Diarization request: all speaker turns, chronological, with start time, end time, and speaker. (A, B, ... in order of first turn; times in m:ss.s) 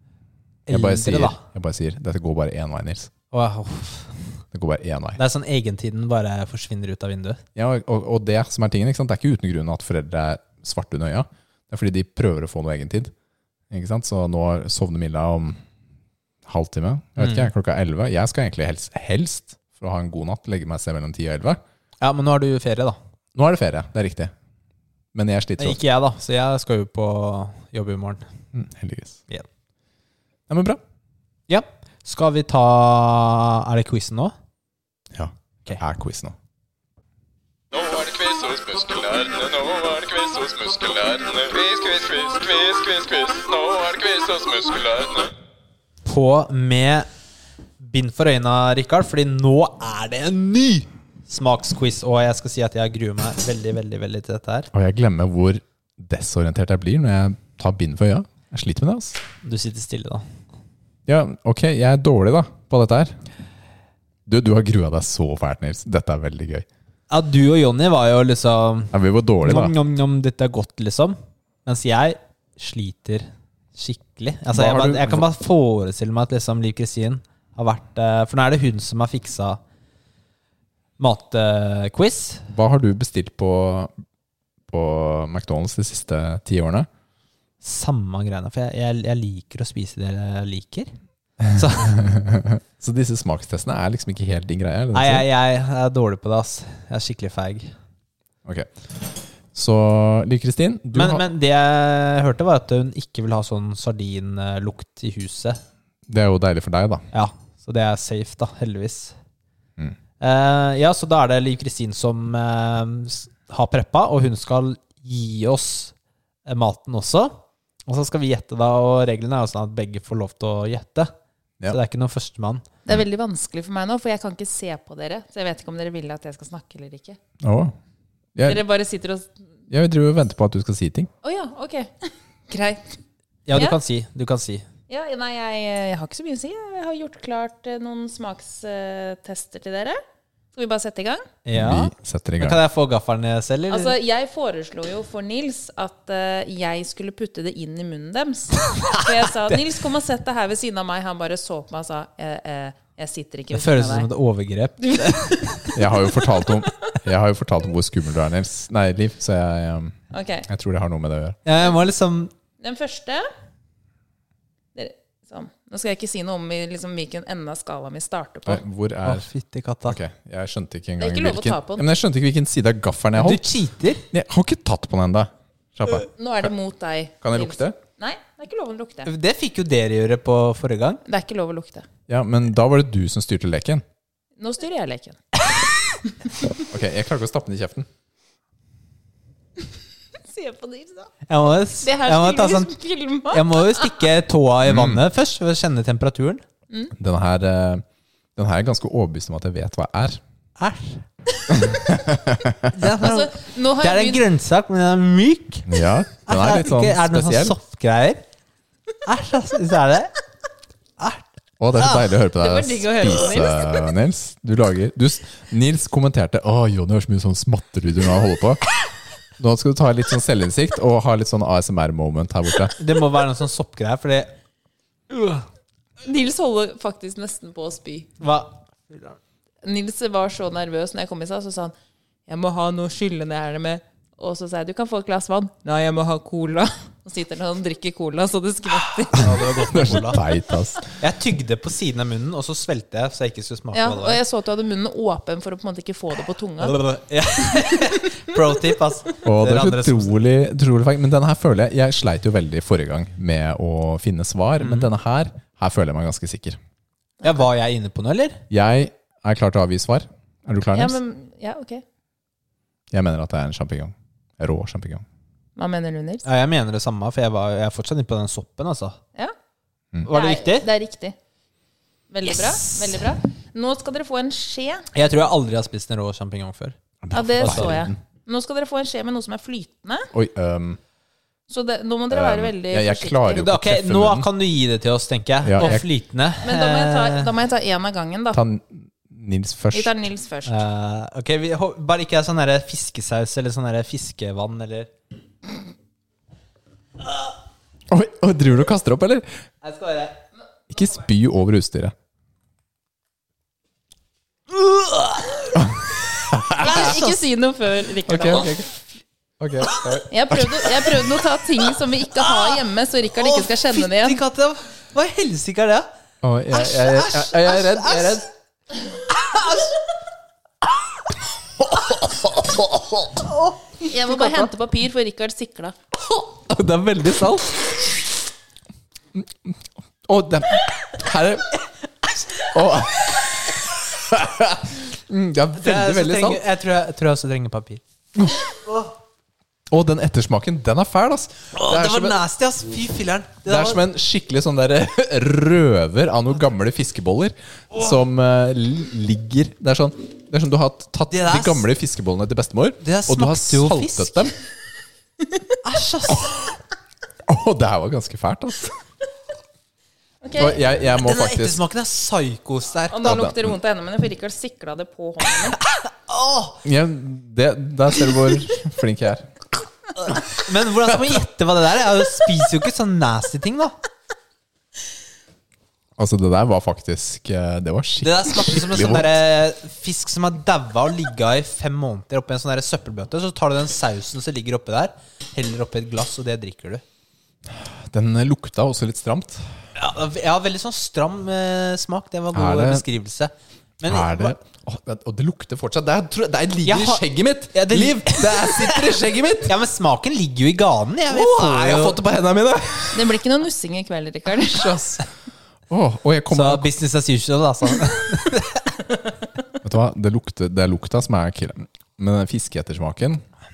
0:00.7-0:01.4 A
0:00.7-0:03.1 B
0:03.3-0:04.2 A
0:04.5-0:05.2 B
0:05.2-0:07.4 A
0:07.6-0:13.1 B
0:13.7-0:15.6 B
0:16.5-0:21.6 B
0:17.2-0:17.5 A
0:22.0-0:23.0 A
0:23.4-0:24.3 B
0:25.1-0:25.8 B
0:25.6-0:28.2 A
0:28.5-0:29.2 B
0:30.5-0:30.8 B
0:31.5-0:34.3 A
0:35.1-0:36.4 B
0:37.7-0:45.3 C
0:46.0-0:47.1 A
0:47.8-0:54.7 A
0:54.7-0:59.2 B
0:59.4-1:00.2 A
1:01.1-1:03.2 B
1:04.3-1:06.7 B
1:07.1-1:19.6 A
1:08.9-1:09.7 B
1:14.5-1:15.3 B
1:21.0-1:22.5 A
1:22.5-1:23.9 B
1:24.7-1:26.9 B
1:27.6-1:30.9 A
1:31.5-1:32.0 A
1:31.8-1:35.2 B
1:34.9-1:37.7 A
1:38.4-1:41.3 B
1:40.9-1:45.6 A
1:46.1-1:47.1 B
1:47.1-1:49.1 A
1:50.2-1:55.9 A
1:56.5-2:01.1 A
2:01.7-2:02.6 A
2:02.9-2:07.2 D
2:07.4-2:07.8 B
2:08.4-2:08.6 B
2:08.4-2:09.3 D
2:09.7-2:11.1 B
2:11.2-2:13.0 D
2:13.5-2:14.6 A
2:14.9-2:20.0 D
2:20.5-2:21.3 D
2:21.4-2:24.0 A
2:21.5-2:22.6 B
2:23.7-2:34.1 D
2:28.7-2:29.6 A
2:33.5-2:35.7 A
2:34.8-2:35.7 D
2:35.7-2:41.4 B
2:36.2-2:36.7 D
2:40.1-2:40.5 D
2:41.4-2:42.3 A
2:42.6-2:43.3 D
2:44.8-2:48.6 D
2:48.5-2:49.3 B
2:49.0-2:50.0 A
2:49.9-2:53.4 B
2:51.0-2:51.8 D
2:53.2-2:54.0 A
2:54.1-2:56.5 B
2:56.0-2:59.1 D
2:57.2-2:57.8 B
2:59.1-3:01.0 A
3:01.0-3:01.9 D
3:02.1-3:03.8 B
3:04.4-3:05.4 D
3:06.7-3:07.9 B
3:10.2-3:11.1 D
3:11.3-3:12.7 A
3:11.8-3:14.0 D
3:13.3-3:16.4 A
3:14.6-3:15.0 B
3:17.0-3:17.8 B
3:18.4-3:20.2 B
3:20.6-3:21.0 A
3:21.5-3:22.7 B
3:22.7-3:25.7 A
3:23.0-3:24.2 D
3:25.7-3:27.6 B
3:26.3-3:28.2 A
3:29.1-3:30.1 A
3:31.0-3:31.2 A
3:31.6-3:38.6 B
3:32.3-3:33.8 D
3:39.4-3:42.8 B
3:42.8-3:44.3 A
3:45.1-3:45.4 A
3:46.0-3:48.1 D
3:48.2-3:49.2 A
3:49.6-3:51.7 D
3:52.3-3:59.8 D
3:59.1-4:00.2 A
3:59.2-4:00.9 B
4:01.0-4:04.2 A
4:03.7-4:06.8 D
4:06.6-4:10.1 A
4:07.7-4:07.9 D
4:09.2-4:16.6 B
4:14.6-4:14.9 A
4:17.2-4:18.4 A
4:18.5-4:21.0 B
4:20.7-4:21.8 D
4:22.9-4:25.0 B
4:25.6-4:26.2 D
4:26.2-4:29.0 A
4:30.0-4:30.7 A
4:30.1-4:31.2 D
4:32.1-4:34.9 D
4:32.3-4:33.0 A
4:34.9-4:36.8 A
4:37.0-4:38.0 B
4:37.1-4:40.1 D
4:37.4-4:37.8 A
4:40.1-4:40.8 B
4:41.5-4:43.4 D
4:42.1-4:44.3 B
4:43.3-4:47.3 A
4:45.4-4:45.8 B
4:46.4-4:48.4 D
4:48.3-4:49.9 B
4:49.7-4:50.6 D
4:50.4-4:54.9 A
4:57.9-4:59.3 B
4:59.6-5:00.2 A
5:00.7-5:01.9 B
5:04.5-5:05.6 A
5:05.6-5:06.8 B
5:06.6-5:07.2 A
5:06.6-5:08.6 D
5:08.1-5:08.7 B
5:09.4-5:11.1 B
5:10.1-5:14.2 D
5:13.2-5:15.9 A
5:16.2-5:18.2 B
5:16.6-5:18.3 A
5:19.1-5:19.8 A
5:21.6-5:23.1 B
5:23.2-5:24.5 A
5:23.8-5:25.8 D
5:26.4-5:28.0 B
5:29.2-5:31.6 B
5:32.4-5:36.4 B
5:35.6-5:37.8 A
5:39.7-5:42.2 B
5:41.6-5:43.8 A
5:43.5-5:54.3 B
5:51.1-5:51.6 A
5:52.8-5:54.3 A
5:55.6-5:56.4 A
5:57.3-5:58.7 B
6:00.2-6:00.6 D
6:00.4-6:01.6 B
6:01.0-6:03.2 A
6:02.9-6:05.6 D
6:03.0-6:03.5 B
6:05.7-6:06.6 A
6:06.6-6:09.3 B
6:10.2-6:13.8 A
6:16.0-6:19.2 B
6:18.0-6:26.8 A
6:27.5-6:29.5 B
6:29.8-6:34.4 A
6:32.3-6:32.8 B
6:33.8-6:39.6 B
6:36.6-6:38.9 A
6:39.5-6:42.0 A
6:41.1-6:43.2 B
6:42.9-6:44.9 D
6:44.5-6:45.0 B
6:45.7-6:46.7 B
6:46.3-6:48.7 A
6:49.6-6:53.2 B